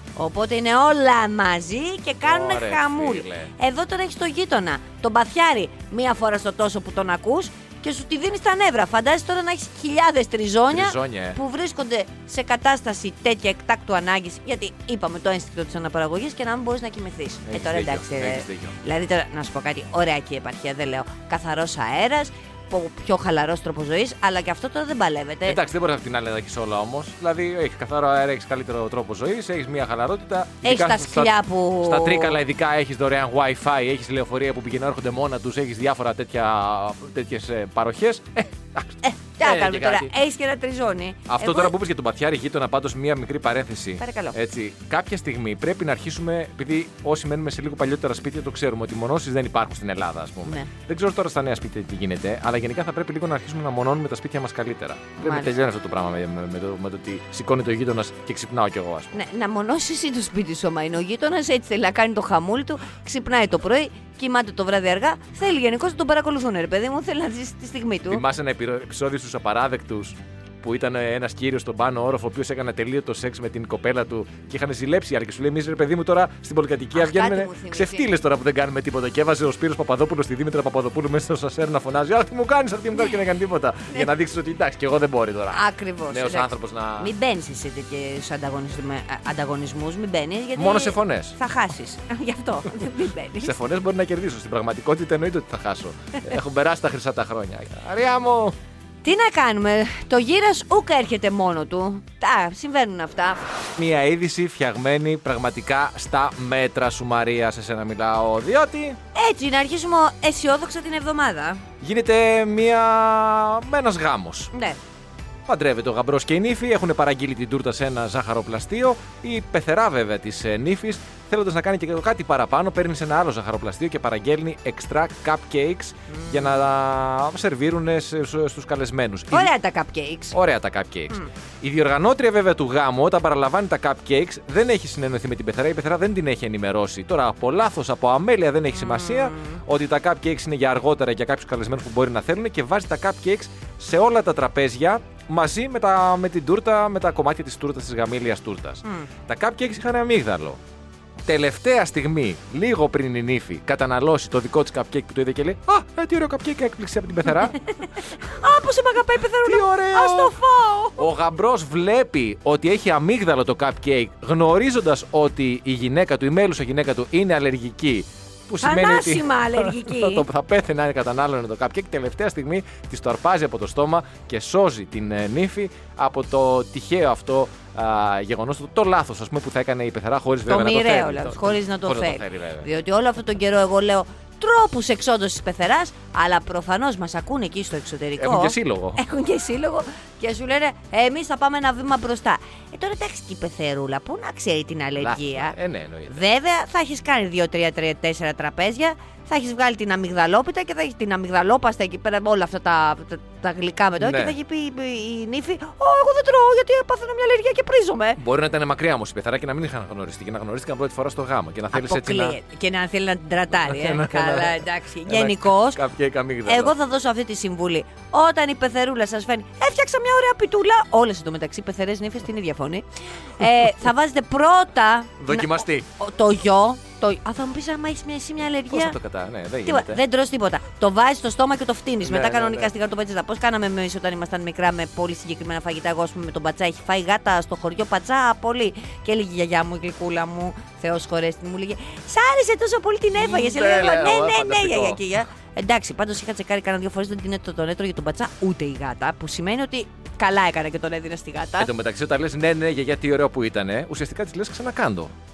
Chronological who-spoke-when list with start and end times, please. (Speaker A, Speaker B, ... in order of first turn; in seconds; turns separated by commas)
Speaker A: 0.1-25.6, Speaker B: 2.2-3.5, Speaker B: 10.7-11.4, Speaker B: 17.5-18.7, Speaker B: 25.4-40.1, Speaker A: 30.6-32.4, Speaker A: 39.0-41.7, Speaker B: 41.3-59.1, Speaker A: 44.0-44.4, Speaker A: 50.4-50.7, Speaker A: 55.2-55.5, Speaker A: 59.1-68.2, Speaker B: 68.1-87.1, Speaker A: 76.9-78.1, Speaker A: 85.5-93.6, Speaker B: 90.5-91.4, Speaker B: 93.4-98.5, Speaker A: 99.0-103.5, Speaker B: 103.8-109.0, Speaker A: 109.1-111.6, Speaker B: 111.8-114.5, Speaker A: 114.5-114.8, Speaker B: 115.5-129.5, Speaker A: 126.1-126.6, Speaker A: 129.3-130.3, Speaker B: 130.3-150.6, Speaker A: 138.8-139.6, Speaker A: 148.8-149.1, Speaker B: 151.2-157.6, Speaker A: 158.2-161.1, Speaker B: 159.4-160.3, Speaker B: 161.0-182.7, Speaker A: 168.6-170.2, Speaker A: 180.4-195.6, Speaker B: 188.2-189.0, Speaker B: 195.0-196.2, Speaker A: 196.1-208.2, Speaker B: 204.0-204.3, Speaker B: 208.2-212.4, Speaker A: 211.7-215.8, Speaker B: 213.6-216.7, Speaker A: 216.4-222.8, Speaker A: 223.3-229.0, Speaker B: 225.2-225.9, Speaker B: 228.7-230.0, Speaker A: 229.6-251.7, Speaker B: 232.0-232.7, Speaker B: 243.2-245.0, Speaker B: 251.6-255.1